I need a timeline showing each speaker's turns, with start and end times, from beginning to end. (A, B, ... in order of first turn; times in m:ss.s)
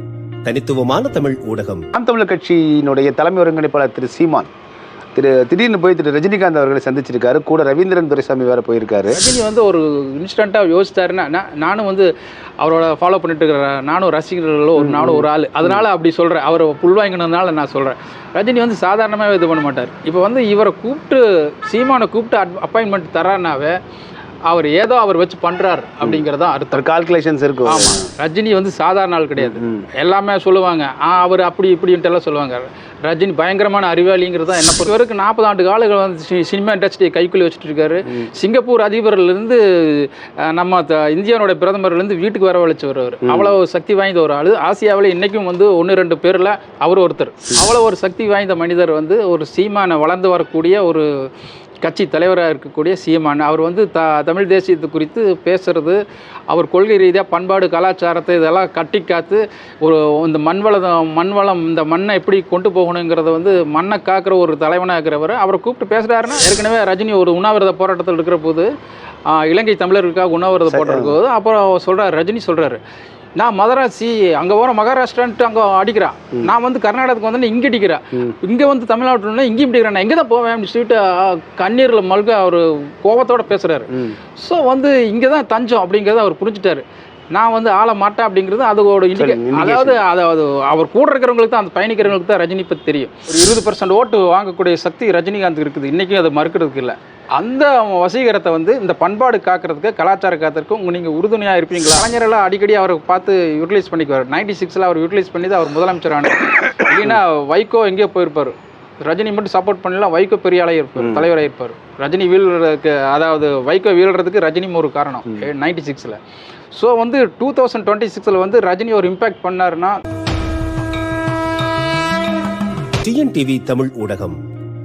0:00.4-0:01.9 A
0:02.0-0:04.5 B
0:05.2-0:09.2 B
0:09.1-0:23.8 C
0:14.8-0:15.8 B
0:24.5-0:26.9 C
0:26.0-0:28.1 B
0:27.6-0:51.1 C
0:29.4-0:29.8 B
0:43.2-0:43.5 B
0:51.8-1:08.7 C
1:09.3-1:12.8 C
1:10.7-1:11.1 B
1:13.4-1:56.2 C
1:23.9-1:24.2 B
1:29.1-1:30.0 B
1:51.0-1:51.3 B
1:56.8-2:00.0 C
2:03.0-2:04.4 A